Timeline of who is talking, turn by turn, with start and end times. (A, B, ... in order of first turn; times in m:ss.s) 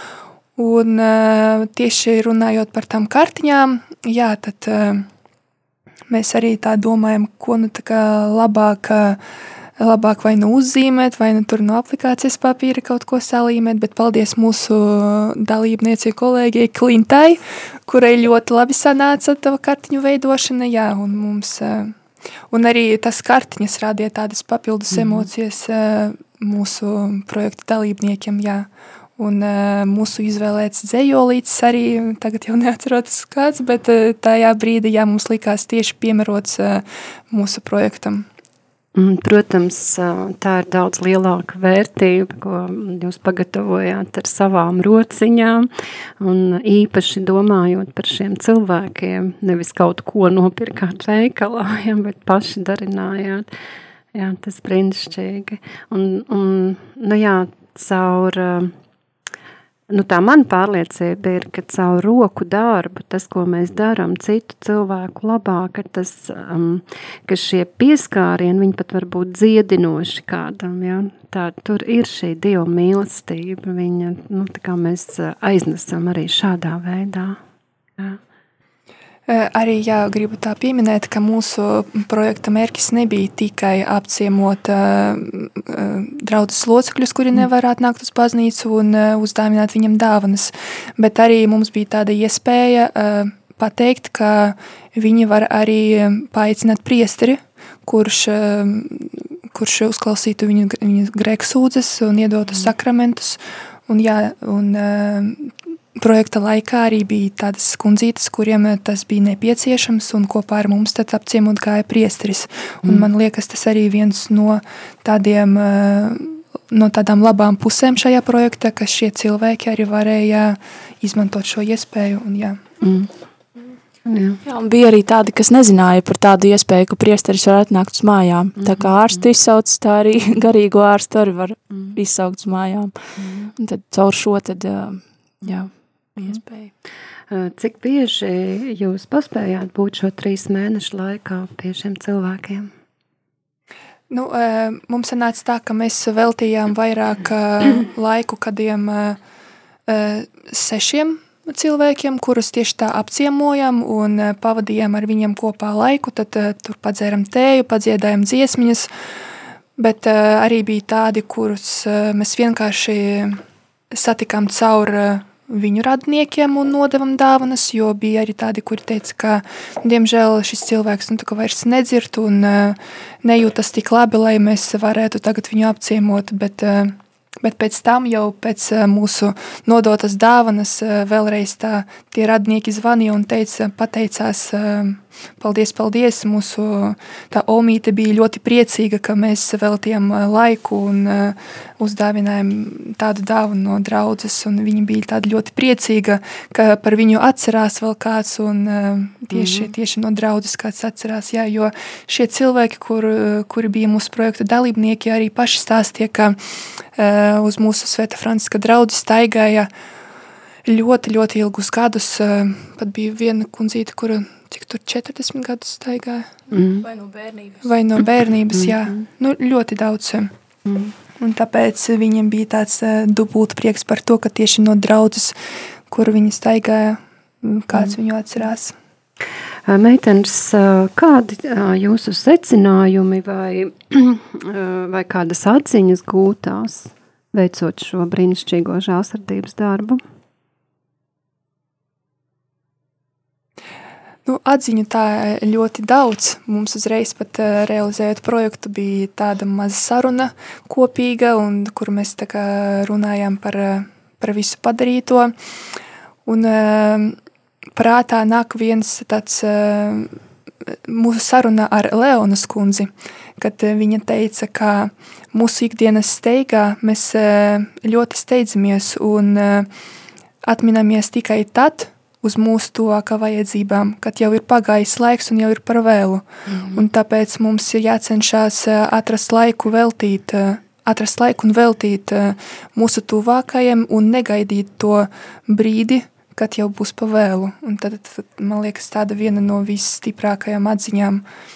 0:00.6-0:05.1 A
0:06.1-0:09.2 A
0:09.8-0:22.0 A
0:22.5-0:38.3 A
0:25.0-0:25.3 B
0:39.0-0:45.7 B
0:46.2-0:53.5 B
0:54.1-0:58.7 B
0:59.9-1:17.4 B
1:19.3-2:02.6 A
2:02.8-2:03.1 B
2:04.1-2:04.4 B
2:04.5-2:12.9 C
2:08.6-2:09.2 B
2:13.2-2:13.5 B
2:13.6-2:16.7 C
2:17.3-2:22.7 B
2:24.1-2:29.2 A
2:29.9-2:38.9 A
2:39.8-2:43.4 A
2:43.9-3:26.4 A
3:19.3-3:19.7 B
3:26.9-3:29.7 A
3:30.7-3:36.3 A
3:36.5-3:36.9 B
3:36.8-3:37.6 C
3:37.6-3:40.3 A
3:38.6-3:39.0 B
3:40.7-3:40.9 B
3:41.2-3:45.4 A
3:45.9-3:48.8 A
3:49.7-4:00.0 B
4:04.3-4:15.3 A
4:16.2-4:17.2 A
4:17.8-4:29.7 A
4:30.4-4:51.2 A
4:36.5-4:36.8 B